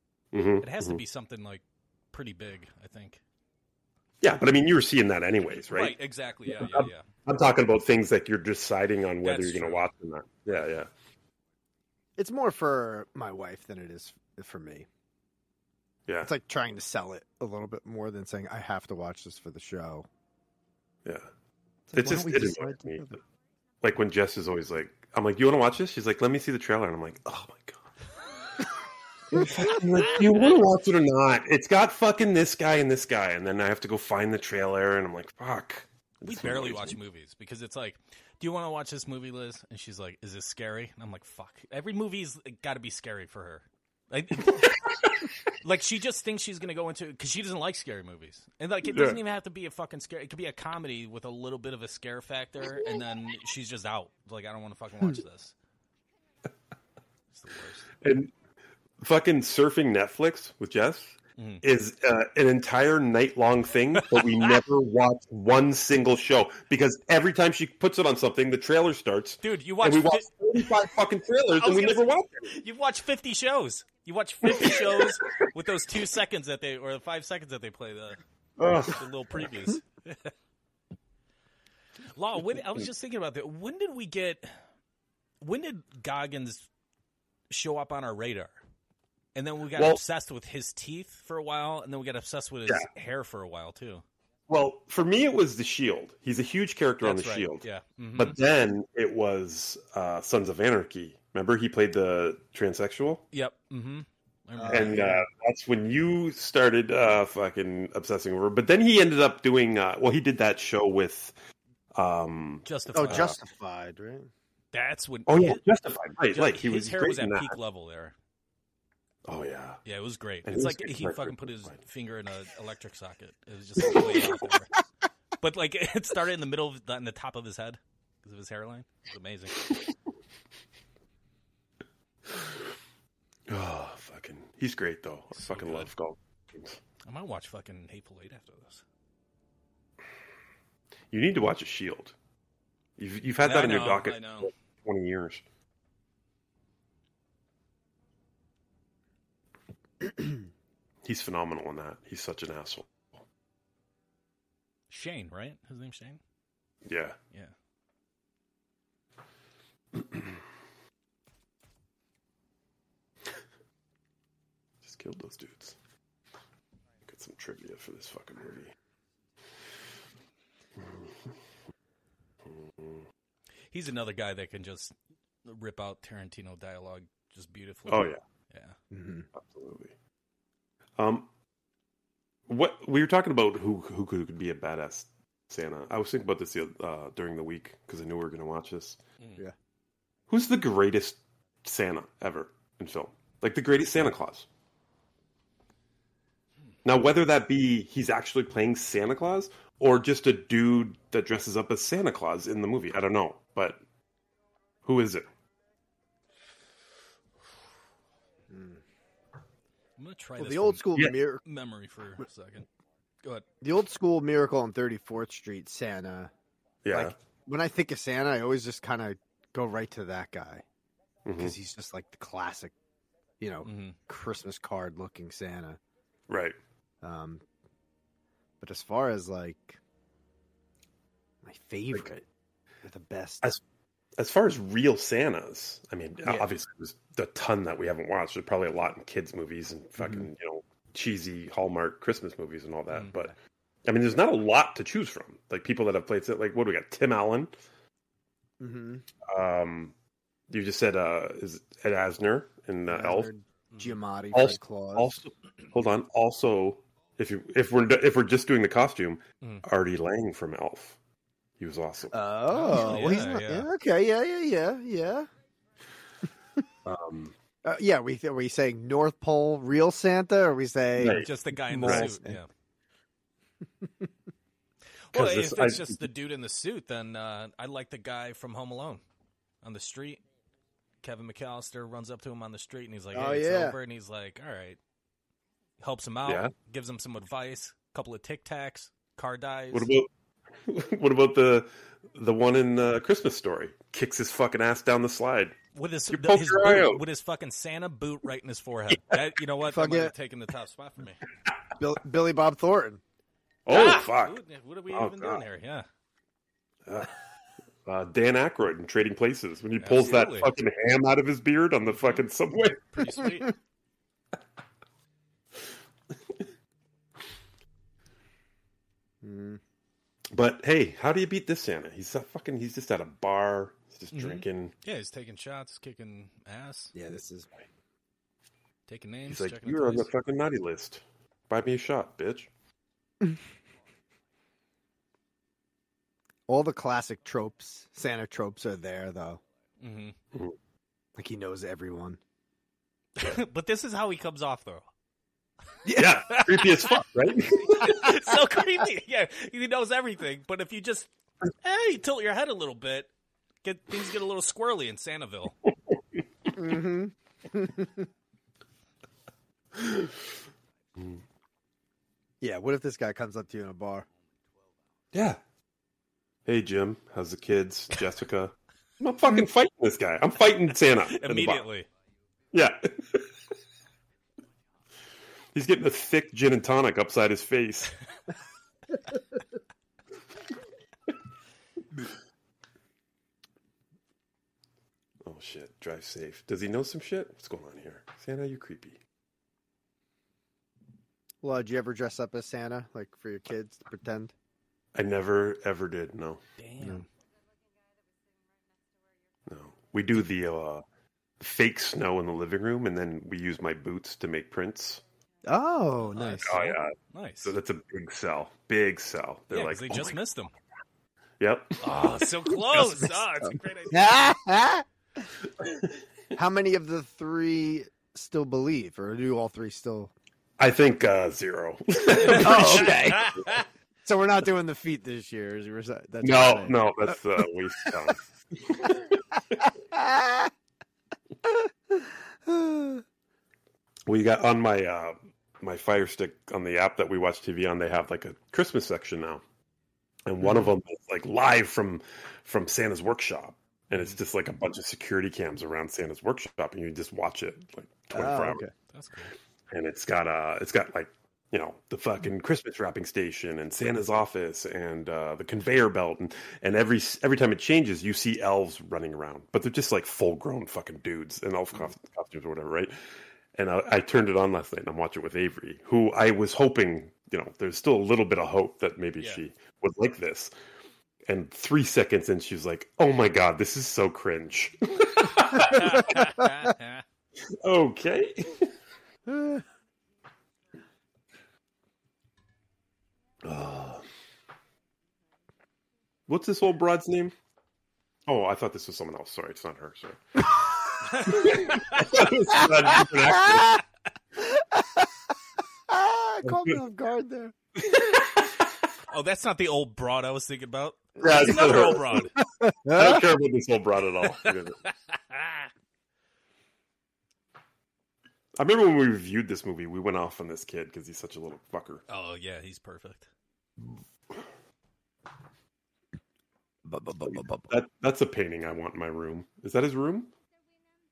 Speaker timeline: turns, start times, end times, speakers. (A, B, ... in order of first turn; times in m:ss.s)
0:00.3-0:01.0 A
0:00.6-0:03.2 B
0:04.2-0:10.9 A
0:05.7-0:07.1 B
0:09.2-0:09.8 B
0:12.2-0:14.9 C
0:16.1-0:16.3 A
0:16.2-0:20.1 C
0:21.9-0:23.2 C
0:21.9-0:23.1 A
0:23.8-0:27.9 A
0:29.3-0:37.0 A
0:36.3-0:44.8 B
0:44.6-0:45.0 A
0:45.6-0:55.6 B
0:48.9-0:49.2 A
0:57.3-0:58.0 B
0:58.0-0:58.3 A
0:59.0-1:12.5 A
1:01.4-1:01.6 B
1:04.0-1:04.6 B
1:09.4-1:10.9 B
1:11.6-1:18.2 B
1:18.6-1:19.0 A
1:18.8-1:20.3 B
1:22.1-1:24.5 B
1:25.4-1:26.7 B
1:27.5-1:28.6 B
1:29.4-1:34.0 B
1:29.8-1:30.0 A
1:34.5-1:43.3 A
1:37.0-1:38.4 B
1:43.3-1:45.2 B
1:44.6-1:45.2 C
1:44.7-1:51.4 A
1:51.9-1:53.3 A
1:52.6-1:53.4 B
1:52.9-1:54.3 C
1:54.7-1:55.6 B
1:55.3-1:57.6 A
1:56.3-1:58.2 B
1:59.3-1:59.8 A
1:59.8-2:04.8 B
2:00.4-2:01.7 A
2:03.9-2:04.5 A
2:05.4-2:09.7 B
2:13.5-2:16.8 A
2:15.4-2:15.9 B
2:17.0-2:18.8 B
2:21.1-2:22.2 A
2:23.0-2:25.4 A
2:23.4-2:24.5 B
2:31.0-2:32.9 A
2:34.9-2:36.2 B
2:36.8-2:37.2 A
2:44.8-2:45.8 A
2:47.1-2:48.7 A
2:50.8-2:51.1 A
2:52.5-2:53.0 A
2:53.7-2:54.9 B
2:55.4-2:58.8 B
2:57.9-2:58.2 A
2:58.9-2:59.3 C
2:59.3-2:59.9 A
3:01.0-3:01.3 A
3:02.5-3:09.0 A
3:10.3-3:14.5 A
3:16.8-3:23.8 A
3:24.8-3:25.3 A
3:28.5-3:28.8 C
3:30.0-3:32.7 B
3:30.4-3:31.4 C
3:33.6-3:36.3 C
3:36.8-3:37.2 A
3:36.9-3:40.6 C
3:41.2-3:41.6 A
3:41.4-3:42.7 C
3:43.4-3:45.8 C
3:43.6-3:44.0 B
3:46.3-3:46.6 A
3:47.0-3:47.4 C
3:48.6-3:49.8 C
3:51.4-3:52.2 C
3:52.8-3:53.5 C
3:54.2-4:03.3 A
4:00.0-4:00.3 C
4:03.8-4:07.5 A
4:08.6-4:09.0 C
4:09.3-4:09.9 A
4:10.5-4:13.3 A
4:12.9-4:15.1 C
4:14.3-4:21.0 A
4:21.6-4:22.2 A
4:22.1-4:25.3 C
4:22.5-4:23.7 B
4:26.8-4:27.3 A
4:27.6-4:32.4 C
4:31.0-4:31.3 A
4:31.0-4:32.5 B
4:31.8-4:32.1 A
4:35.1-4:39.0 B
4:35.1-4:36.0 A
4:39.6-4:40.2 B
4:41.0-4:44.8 B
4:43.1-4:43.8 C
4:45.8-4:49.9 B
4:46.2-4:46.5 A
4:49.7-4:50.1 A
4:50.7-4:55.6 A
4:55.8-5:01.2 B
4:56.1-4:57.0 A
4:59.6-5:00.1 C
5:01.8-5:03.0 C
5:03.7-5:04.4 A
5:03.7-5:05.9 B
5:04.9-5:05.4 A
5:07.9-5:13.0 A
5:09.8-5:10.5 B
5:11.9-5:12.2 B
5:12.9-5:13.5 B
5:19.2-5:19.6 C
5:20.3-5:24.7 A
5:24.1-5:26.9 B
5:26.9-5:27.5 C
5:28.9-5:30.1 B
5:29.3-5:32.5 A
5:36.5-5:39.4 C
5:39.8-5:40.2 B
5:41.2-5:42.2 C
5:43.2-5:44.9 B
5:45.8-5:46.4 C
5:45.9-5:48.2 A
5:46.3-5:53.1 B
5:53.6-5:55.6 B
5:56.5-5:58.1 C
5:59.8-6:00.1 A
6:02.4-6:04.1 C
6:05.1-6:05.4 A
6:06.5-6:11.7 A
6:11.1-6:11.9 B
6:12.5-6:13.3 A
6:15.5-6:17.9 A
6:25.2-6:29.0 A
6:31.4-6:34.3 C
6:35.0-6:36.4 A
6:36.6-6:37.1 B
6:39.5-6:40.8 A
6:41.4-6:45.0 A
6:45.4-6:46.8 C
6:46.1-6:47.6 B
6:46.2-6:50.2 A
6:49.5-6:50.5 B
6:51.4-6:52.1 A
6:51.8-6:54.2 B
6:52.6-6:54.9 C
6:56.3-7:00.1 C
7:00.6-7:03.6 A
7:02.2-7:08.1 C
7:02.2-7:03.6 B
7:06.2-7:09.0 A
7:08.9-7:10.5 C
7:11.4-7:13.0 C
7:14.1-7:19.4 A
7:20.3-7:28.6 A
7:28.1-7:28.7 C
7:28.9-7:29.3 B
7:29.7-7:43.0 A
7:43.5-7:50.5 A
7:51.3-7:56.4 A
7:55.6-7:57.0 B
7:57.5-7:58.7 A
7:59.3-7:59.6 C
8:03.4-8:04.0 A
8:06.3-8:07.3 A
8:08.3-8:10.5 A
8:11.1-8:12.1 B
8:11.2-8:13.8 A
8:13.4-8:13.8 C
8:14.4-8:15.1 C
8:15.9-8:17.6 C
8:16.4-8:16.7 A
8:17.8-8:18.6 A
8:19.1-8:22.3 B
8:21.2-8:22.3 A
8:21.2-8:21.9 C
8:22.5-8:23.3 C
8:22.9-8:24.8 A
8:24.4-8:25.7 B
8:28.6-8:32.0 A
8:32.1-8:33.3 B
8:36.9-8:37.7 C
8:37.3-8:40.3 A